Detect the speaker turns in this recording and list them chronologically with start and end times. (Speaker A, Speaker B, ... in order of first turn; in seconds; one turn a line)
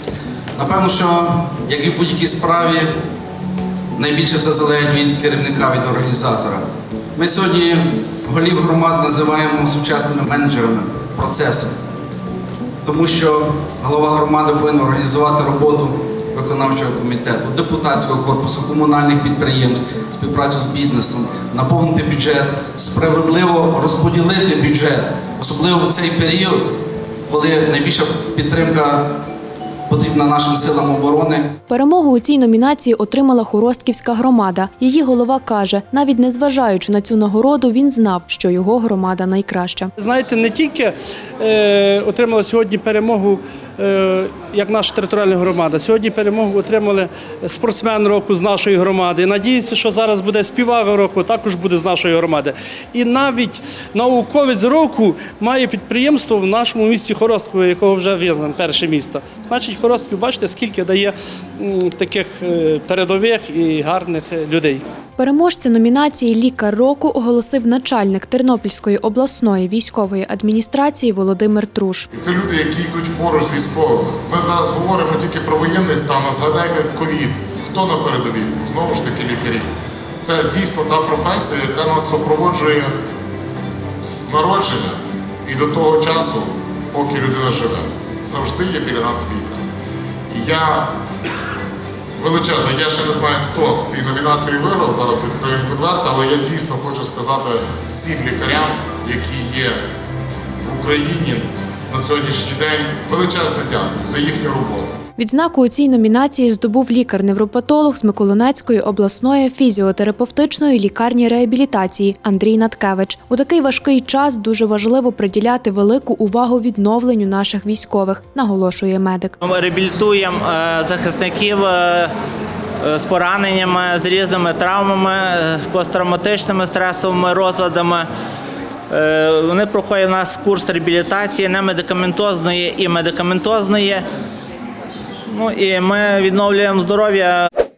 Speaker A: 0.6-2.9
Speaker A: 4.0-6.7
Speaker A: 7.2-11.8
Speaker A: 12.8-26.8
Speaker A: 27.3-29.2
Speaker A: 29.9-31.5
Speaker B: 31.7-39.9
Speaker C: 40.0-64.8
Speaker B: 65.2-72.1
Speaker D: 72.1-79.7
Speaker D: 80.2-82.9
Speaker D: 84.0-89.6
Speaker D: 90.3-90.9
Speaker D: 92.2-99.8
Speaker D: 100.6-105.0
Speaker B: 105.2-119.4
Speaker E: 119.4-122.1
Speaker E: 122.8-128.1
Speaker E: 128.9-134.0
Speaker E: 135.3-137.5